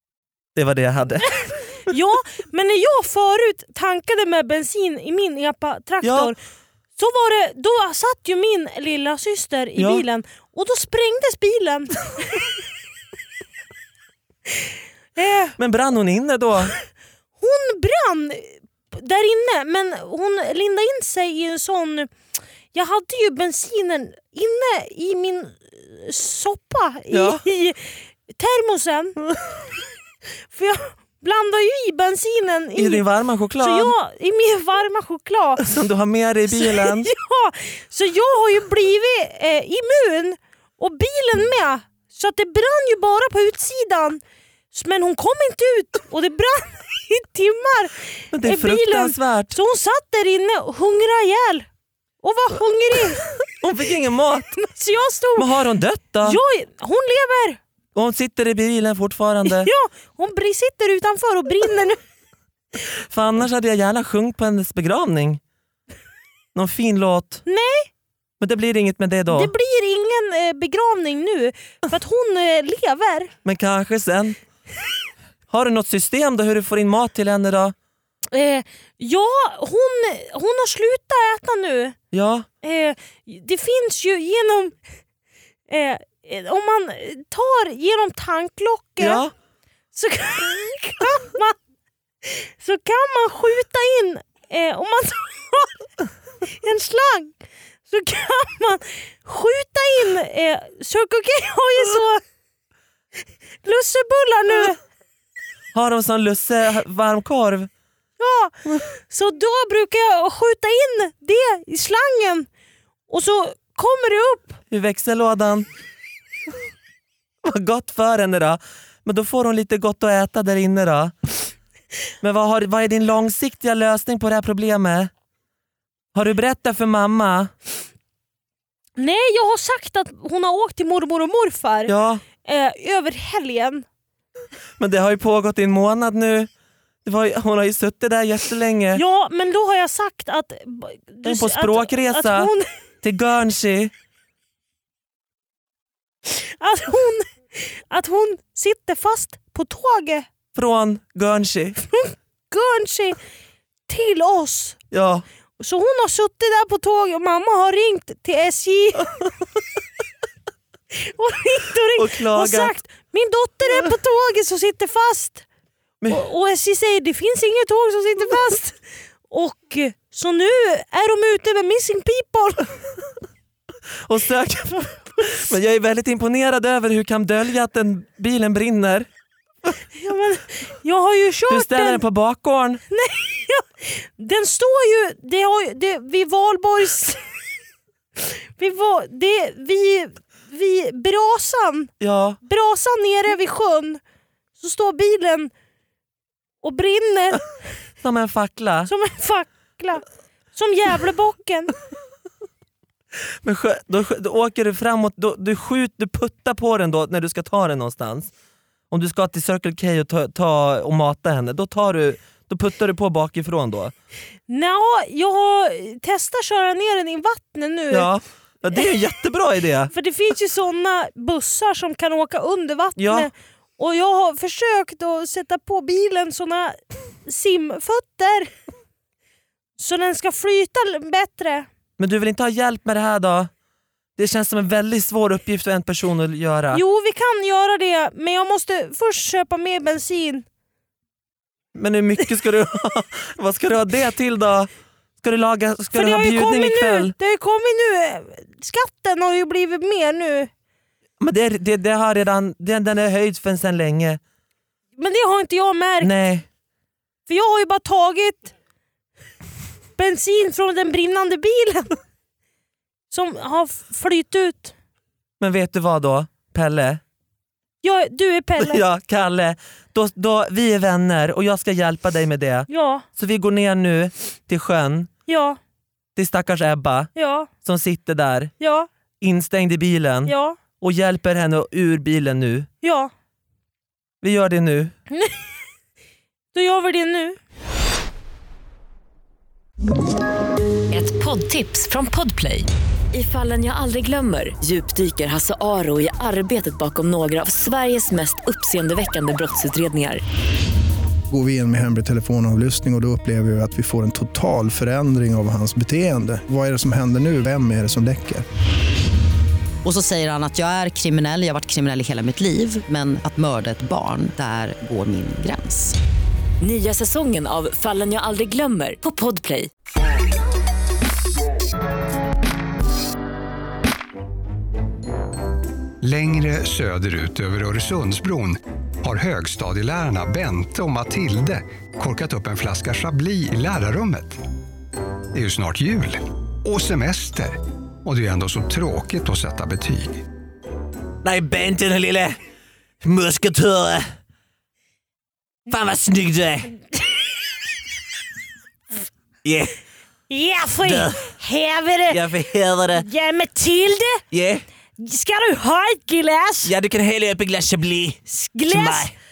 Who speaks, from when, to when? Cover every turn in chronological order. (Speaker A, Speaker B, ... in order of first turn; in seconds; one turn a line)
Speaker A: 0.6-1.5
Speaker B: 1.3-6.4
Speaker A: 6.0-6.3
Speaker B: 7.0-12.4
Speaker A: 9.8-10.0
Speaker B: 15.2-15.6
Speaker A: 15.6-16.7
Speaker B: 17.4-22.1
Speaker B: 22.7-29.2
Speaker A: 27.1-27.4
Speaker B: 30.5-33.0
Speaker A: 32.8-33.9
Speaker B: 33.6-35.6
Speaker A: 35.6-37.1
Speaker B: 36.5-44.2
Speaker B: 44.7-51.7
Speaker A: 48.3-49.6
Speaker B: 52.2-53.2
Speaker A: 53.6-54.5
Speaker B: 54.6-55.5
Speaker A: 55.4-56.4
Speaker B: 56.2-57.6
Speaker A: 57.9-59.7
Speaker B: 59.4-62.0
Speaker A: 63.1-65.4
Speaker A: 66.5-67.4
Speaker B: 67.5-67.9
Speaker A: 68.4-69.5
Speaker B: 69.3-73.3
Speaker A: 73.4-74.4
Speaker A: 75.5-77.7
Speaker B: 78.3-82.0
Speaker A: 82.1-82.5
Speaker B: 82.6-84.8
Speaker B: 85.7-89.2
Speaker A: 89.0-89.3
Speaker B: 89.9-91.5
Speaker B: 92.2-95.8
Speaker B: 96.5-97.3
Speaker B: 97.9-102.2
Speaker B: 103.6-104.8
Speaker A: 105.7-107.7
Speaker B: 108.2-112.5
Speaker B: 113.1-114.6
Speaker A: 114.7-115.7
Speaker A: 117.4-121.1
Speaker A: 122.2-125.1
Speaker A: 126.1-127.5
Speaker B: 129.0-131.9
Speaker A: 131.9-132.2
Speaker B: 132.4-133.8
Speaker A: 134.8-136.5
Speaker A: 137.0-139.0
Speaker B: 138.9-142.7
Speaker A: 141.2-142.5
Speaker A: 143.0-143.9
Speaker B: 146.2-150.3
Speaker A: 150.5-151.8
Speaker B: 151.9-153.2
Speaker B: 153.9-154.8
Speaker A: 154.9-155.2
Speaker B: 155.6-159.1
Speaker B: 160.9-165.4
Speaker A: 161.9-162.7
Speaker B: 166.1-168.8
Speaker B: 169.3-172.7
Speaker A: 174.1-179.1
Speaker B: 174.8-175.4
Speaker B: 179.9-182.0
Speaker A: 181.5-182.8
Speaker B: 182.9-187.2
Speaker B: 188.2-191.9
Speaker A: 192.0-192.4
Speaker B: 192.4-194.0
Speaker B: 194.6-195.5
Speaker B: 196.6-197.4
Speaker A: 198.0-198.9
Speaker B: 198.9-201.7
Speaker A: 203.4-208.3
Speaker A: 208.9-213.9
Speaker B: 214.5-218.1
Speaker A: 217.9-219.9
Speaker B: 219.9-228.5
Speaker A: 223.0-223.3
Speaker B: 229.8-231.7
Speaker A: 232.0-233.5
Speaker A: 234.2-236.8
Speaker B: 236.7-240.4
Speaker A: 241.7-244.7
Speaker A: 245.2-247.1
Speaker B: 245.9-250.5
Speaker A: 251.2-254.2
Speaker B: 255.0-256.1
Speaker A: 256.0-256.4
Speaker B: 257.3-258.5
Speaker B: 260.0-262.0
Speaker B: 263.1-264.7
Speaker A: 265.4-267.0
Speaker B: 267.8-268.8
Speaker A: 268.6-275.1
Speaker B: 272.7-273.1
Speaker B: 275.3-275.6
Speaker A: 276.1-278.5
Speaker B: 277.1-277.5
Speaker B: 278.6-278.9
Speaker A: 279.2-282.7
Speaker B: 280.2-280.6
Speaker B: 282.8-283.1
Speaker A: 284.2-284.9
Speaker B: 285.1-285.4
Speaker B: 286.5-287.4
Speaker C: 290.9-300.2
Speaker D: 301.3-308.4
Speaker E: 309.8-315.9
Speaker C: 316.6-319.7
Speaker F: 326.0-334.4
Speaker F: 335.3-340.2
Speaker A: 341.2-342.4
Speaker A: 343.0-344.1
Speaker A: 345.7-346.7
Speaker A: 349.4-349.8
Speaker B: 350.3-352.2
Speaker A: 350.8-351.3
Speaker A: 352.1-353.1
Speaker B: 352.9-354.2
Speaker A: 354.3-354.6
Speaker B: 355.0-356.7
Speaker A: 356.6-359.1
Speaker B: 358.3-359.1